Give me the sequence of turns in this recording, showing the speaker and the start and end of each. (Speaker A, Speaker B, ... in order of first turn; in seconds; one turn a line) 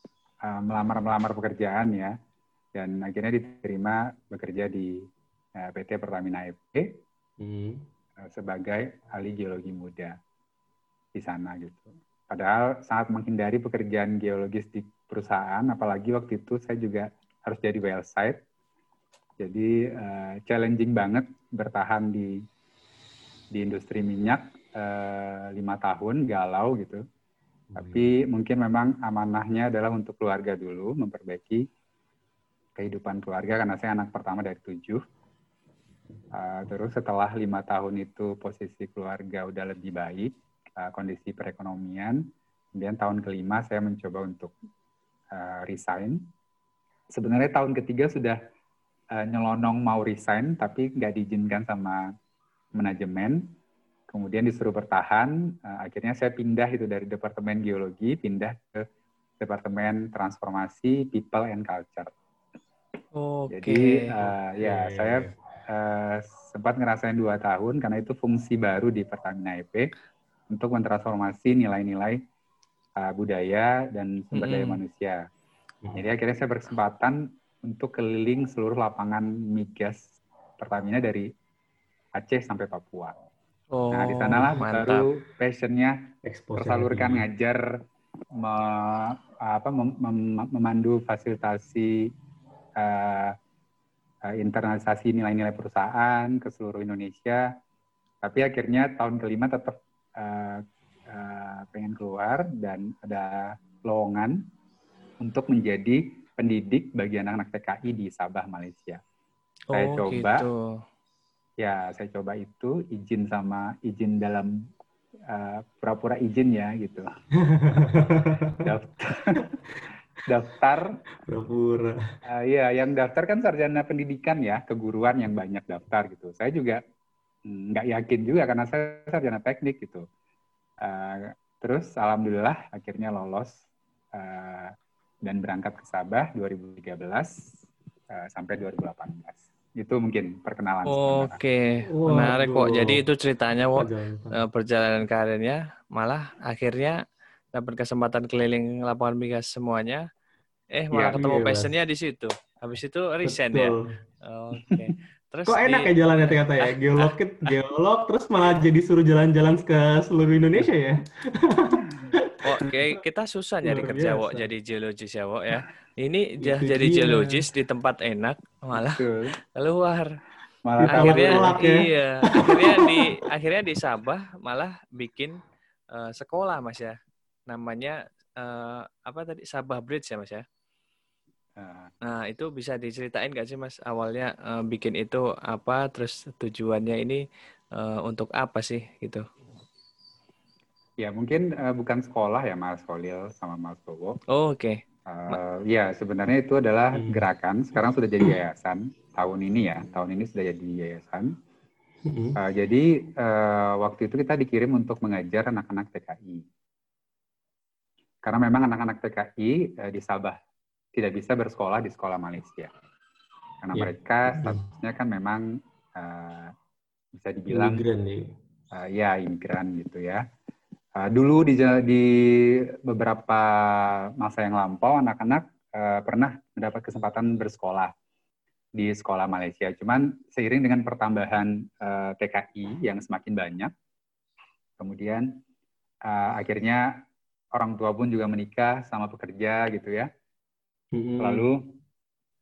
Speaker A: 0.5-2.1
Speaker A: 2.8-5.0
Speaker A: 5.6-7.0
Speaker B: 7.4-7.9
Speaker A: 8.2-10.2
Speaker A: 11.2-18.4
Speaker A: 19.4-22.3
Speaker A: 23.5-27.0
Speaker B: 27.7-28.1
Speaker A: 27.8-31.6
Speaker A: 32.8-35.0
Speaker A: 36.3-42.2
Speaker A: 42.8-44.5
Speaker A: 45.3-46.2
Speaker A: 47.1-48.4
Speaker A: 49.1-52.0
Speaker A: 52.8-53.5
Speaker A: 54.1-58.8
Speaker A: 59.4-62.1
Speaker C: 63.1-64.3
Speaker A: 63.5-69.9
Speaker B: 64.6-65.3
Speaker A: 70.5-72.2
Speaker A: 73.0-75.2
Speaker C: 74.3-74.8
Speaker A: 76.0-81.3
Speaker A: 82.2-83.2
Speaker C: 83.7-85.0
Speaker A: 83.9-86.0
Speaker B: 86.2-87.3
Speaker A: 86.5-87.8
Speaker A: 88.4-92.0
Speaker A: 92.8-93.4
Speaker A: 94.3-97.5
Speaker A: 98.2-104.4
Speaker A: 105.2-109.0
Speaker C: 109.7-110.8
Speaker A: 109.7-110.5
Speaker A: 111.6-114.5
Speaker A: 115.3-117.1
Speaker B: 117.4-118.7
Speaker A: 118.6-119.4
Speaker A: 120.3-120.9
Speaker B: 121.2-122.0
Speaker A: 122.3-126.8
Speaker A: 127.5-130.0
Speaker A: 130.8-133.6
Speaker A: 134.1-137.5
Speaker A: 138.1-141.4
Speaker C: 140.9-147.0
Speaker B: 141.9-143.0
Speaker B: 143.8-144.4
Speaker C: 147.5-150.1
Speaker C: 150.7-157.5
Speaker A: 150.9-151.2
Speaker B: 151.1-151.7
Speaker B: 153.2-153.9
Speaker B: 155.5-162.7
Speaker C: 162.4-170.2
Speaker B: 163.6-164.5
Speaker B: 166.4-167.4
Speaker A: 168.7-169.4
Speaker A: 170.7-171.6
Speaker B: 170.8-173.2
Speaker C: 170.9-177.0
Speaker C: 177.5-180.4
Speaker A: 181.6-181.9
Speaker C: 182.1-187.2
Speaker C: 187.8-189.2
Speaker A: 191.0-194.2
Speaker C: 194.3-195.4
Speaker A: 195.1-201.3
Speaker B: 196.9-197.2
Speaker B: 202.1-202.4
Speaker A: 202.4-206.5
Speaker A: 208.2-210.4
Speaker A: 211.0-212.7
Speaker A: 213.6-215.4
Speaker B: 213.7-214.7
Speaker A: 216.0-216.5
Speaker A: 217.1-217.8
Speaker B: 217.5-218.3
Speaker A: 218.7-220.2
Speaker A: 221.0-222.2
Speaker A: 222.7-227.9
Speaker A: 228.8-233.7
Speaker A: 234.8-235.3
Speaker A: 236.1-236.9
Speaker A: 237.6-240.1
Speaker B: 240.9-241.5
Speaker A: 241.2-241.6